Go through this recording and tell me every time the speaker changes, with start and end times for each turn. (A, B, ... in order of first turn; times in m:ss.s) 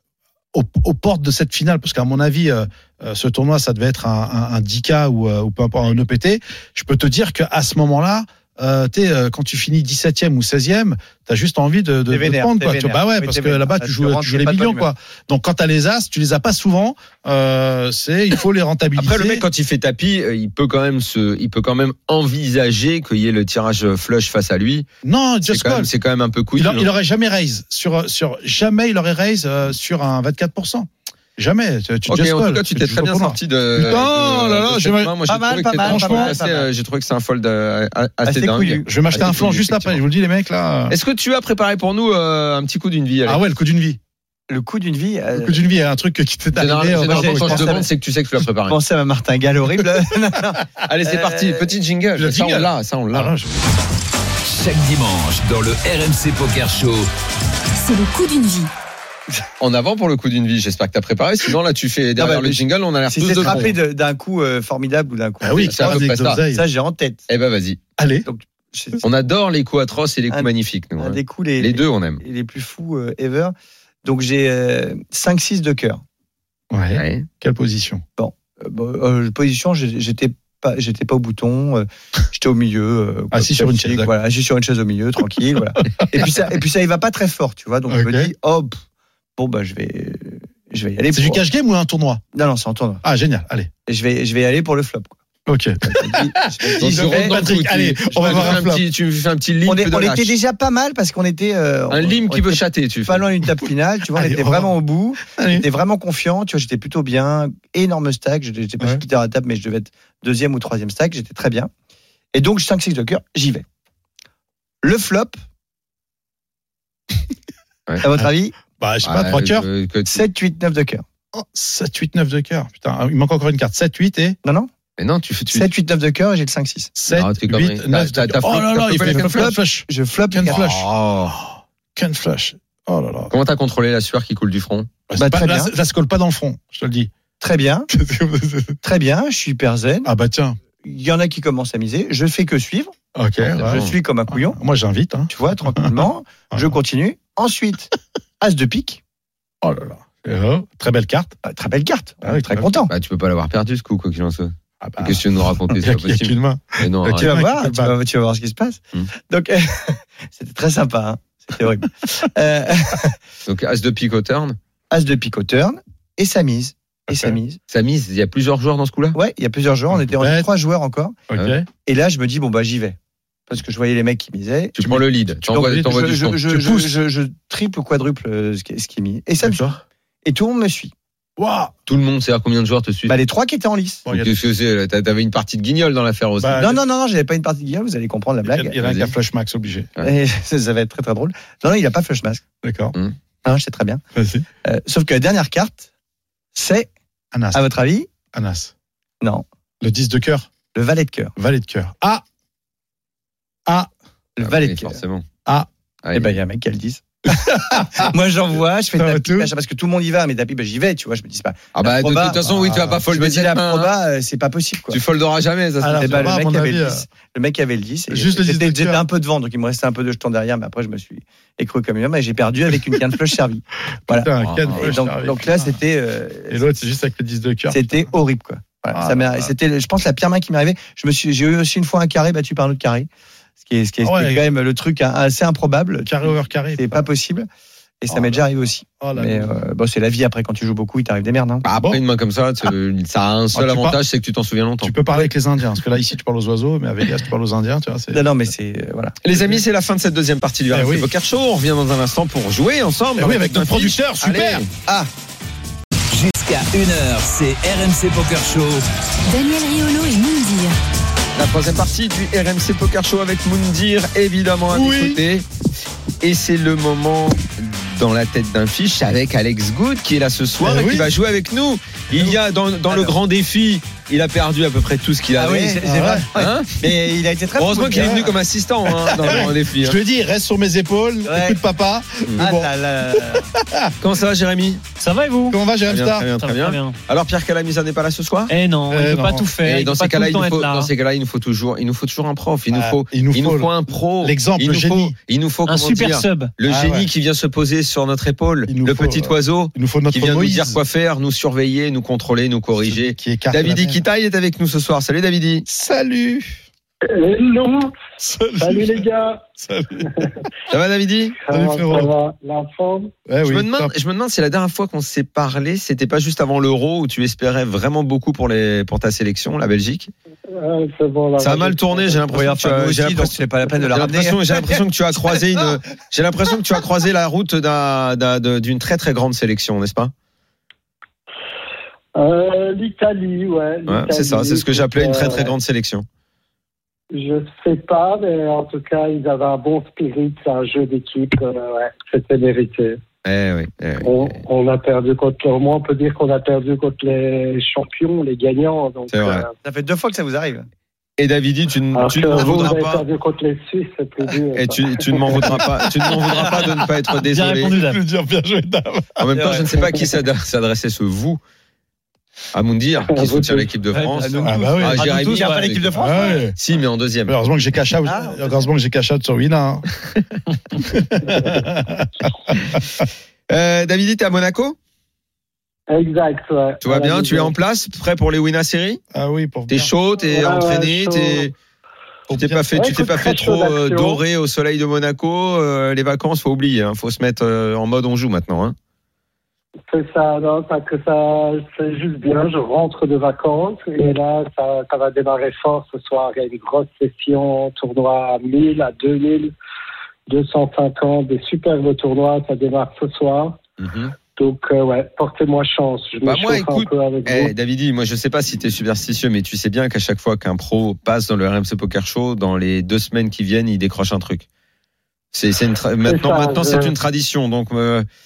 0:00.5-0:19.4 A
0:12.1-0:14.9 B
0:19.0-0:24.9 C
0:25.0-0:25.9 A
0:25.4-0:26.9 C
0:26.6-0:35.2 A
0:32.1-0:39.9 C
0:35.3-0:36.7 B
0:35.8-0:36.4 A
0:38.2-0:39.7 B
0:38.8-0:41.0 A
0:40.9-0:43.4 C
0:43.2-0:44.0 A
0:44.5-0:45.6 B
0:45.3-0:47.7 A
0:46.5-0:48.8 C
0:47.0-0:47.9 B
0:48.7-0:51.7 B
0:50.8-0:53.3 C
0:52.2-0:53.6 A
0:54.4-0:57.1 D
0:57.8-0:58.7 E
0:59.6-1:03.7 C
1:02.2-1:07.2 B
1:03.4-1:03.7 A
1:05.4-1:06.6 A
1:05.6-1:06.4 C
1:07.3-1:07.8 C
1:08.0-1:08.3 A
1:08.2-1:09.0 B
1:09.0-1:12.2 C
1:10.3-1:16.0 B
1:16.7-1:18.0 A
1:16.9-1:17.2 C
1:18.2-1:28.8 B
1:23.3-1:24.1 A
1:27.9-1:28.3 A
1:29.4-1:31.4 B
1:31.1-1:32.2 A
1:32.3-1:33.0 B
1:33.0-1:33.7 A
1:33.9-1:35.2 B
1:35.5-1:38.8 A
1:35.9-1:37.5 B
1:36.8-1:40.3 C
1:38.1-1:38.6 B
1:39.6-1:51.7 B
1:41.9-1:43.2 C
1:44.1-1:45.6 A
1:52.3-1:53.6 B
1:54.8-1:55.4 B
1:58.0-1:58.5 B
1:58.8-1:59.7 A
1:59.0-2:00.2 C
2:00.1-2:01.0 B
2:01.3-2:04.4 A
2:04.4-2:04.7 B
2:05.0-2:05.7 C
2:05.5-2:06.9 B
2:06.9-2:13.3 A
2:07.1-2:09.5 C
2:09.0-2:10.6 B
2:10.4-2:11.4 C
2:13.3-2:14.9 C
2:15.1-2:17.1 A
2:15.2-2:15.7 B
2:17.4-2:17.9 B
2:17.9-2:18.8 A
2:18.8-2:20.1 B
2:20.0-2:20.6 A
2:20.8-2:22.9 B
2:23.1-2:26.7 A
2:23.4-2:23.9 C
2:23.6-2:24.6 B
2:25.3-2:29.0 B
2:29.6-2:31.4 A
2:31.4-2:32.9 B
2:32.2-2:32.8 A
2:32.9-2:37.3 C
2:34.8-2:35.2 A
2:35.8-2:37.9 A
2:37.2-2:43.2 B
2:43.4-2:44.6 C
2:44.9-2:47.6 B
2:47.1-2:47.4 A
2:47.7-2:49.2 C
2:49.1-2:51.2 B
2:50.1-2:50.5 A
2:51.3-2:51.7 A
2:51.8-2:53.0 B
2:53.5-2:54.8 B
2:54.8-2:56.4 C
2:54.8-2:55.9 A
2:55.5-2:59.7 B
2:56.4-2:57.0 A
2:59.4-2:59.8 A
3:00.2-3:00.9 B
3:01.4-3:01.7 A
3:01.9-3:03.2 C
3:03.1-3:04.0 B
3:04.0-3:04.4 A
3:04.1-3:06.7 C
3:06.4-3:06.8 A
3:06.6-3:08.8 B
3:08.4-3:09.9 A
3:08.8-3:09.1 C
3:10.0-3:12.4 B
3:12.6-3:12.9 A
3:13.4-3:14.0 B
3:14.1-3:14.4 A
3:14.6-3:15.9 B
3:16.5-3:16.9 B
3:17.3-3:17.6 A
3:17.5-3:18.1 B
3:18.3-3:18.7 A
3:19.8-3:20.5 A
3:20.7-3:21.3 B
3:21.4-3:22.2 A
3:24.4-3:25.0 B
3:24.4-3:25.2 C
3:26.0-3:26.3 C
3:26.1-3:35.0 B
3:27.3-3:28.1 A
3:29.0-3:29.5 A
3:31.7-3:33.9 C
3:32.5-3:33.0 A
3:34.9-3:36.3 C
3:35.8-3:37.0 A
3:35.9-3:46.6 B
3:38.1-3:39.0 A
3:44.1-3:45.7 A
3:44.4-3:44.9 C
3:46.5-3:48.1 A
3:47.7-3:53.1 B
3:48.9-3:49.5 A
3:53.6-3:57.5 B
3:54.0-3:54.4 A
3:56.0-3:57.1 A
3:58.0-4:01.6 B
3:58.1-3:58.4 A
3:59.0-3:59.5 A
4:01.6-4:05.0 C
4:03.5-4:04.0 A
4:04.8-4:08.2 A
4:08.1-4:09.2 B
4:09.2-4:14.7 C
4:10.7-4:11.1 A
4:13.2-4:14.6 A
4:16.1-4:18.8 D
4:19.3-4:20.7 E
4:21.3-4:25.4 C
4:24.7-4:25.2 A
4:26.2-4:36.8 C
4:30.6-4:31.1 A
4:32.9-4:33.1 B
4:35.4-4:38.3 B
4:35.8-4:36.3 A
4:37.6-4:40.0 C
4:39.0-4:43.9 A
4:41.2-4:41.6 B
4:42.4-4:43.5 B
4:44.0-4:44.8 C
4:45.0-4:45.6 F
4:45.5-4:46.3 A
4:45.9-4:48.5 C
4:46.4-4:47.0 F
4:48.5-4:50.9 F
4:48.9-4:49.5 A
4:49.6-5:05.6 C
4:52.7-4:55.1 A
4:55.6-4:56.5 F
4:56.6-4:57.1 A
4:58.7-5:00.8 A
5:02.8-5:04.0 A
5:05.7-5:06.6 A
5:07.0-5:07.9 G
5:08.2-5:10.4 A
5:08.6-5:09.5 G
5:10.0-5:10.3 G
5:10.7-5:11.4 C
5:11.4-5:13.1 G
5:11.5-5:12.1 A
5:13.2-5:13.9 A
5:13.4-5:20.1 C
5:20.5-5:22.3 G
5:21.4-5:30.1 C
5:22.3-5:24.8 B
5:32.2-5:35.5 G
5:33.9-5:36.0 C
5:37.1-5:43.0 G
5:43.2-5:44.4 C
5:44.0-5:49.5 G
5:49.1-5:49.4 C
5:49.6-5:50.6 B
5:51.2-5:53.0 C
5:51.9-5:55.4 G
5:54.6-5:57.7 C
5:55.4-5:56.8 A
5:57.3-5:58.0 F
5:57.7-5:59.2 A
5:59.2-6:01.4 C
5:59.3-5:59.9 B
6:02.5-6:05.9 C
6:03.1-6:03.7 G
6:03.9-6:05.8 F
6:04.2-6:06.5 B
6:04.4-6:05.1 A
6:05.9-6:06.6 A
6:06.5-6:07.3 C
6:07.2-6:09.8 A
6:08.0-6:08.6 B
6:10.8-6:12.8 A
6:13.5-6:14.8 C
6:15.9-6:17.5 G
6:16.8-6:19.0 C
6:19.1-6:19.9 A
6:19.7-6:21.5 C
6:20.2-6:21.5 G
6:22.3-6:22.9 A
6:22.3-6:28.7 C
6:22.7-6:24.2 G
6:29.9-6:39.5 G
6:40.3-6:43.6 G
6:43.8-6:44.1 C
6:44.4-6:47.5 G
6:46.2-6:54.4 C
6:55.3-6:58.0 C
6:56.0-6:56.9 G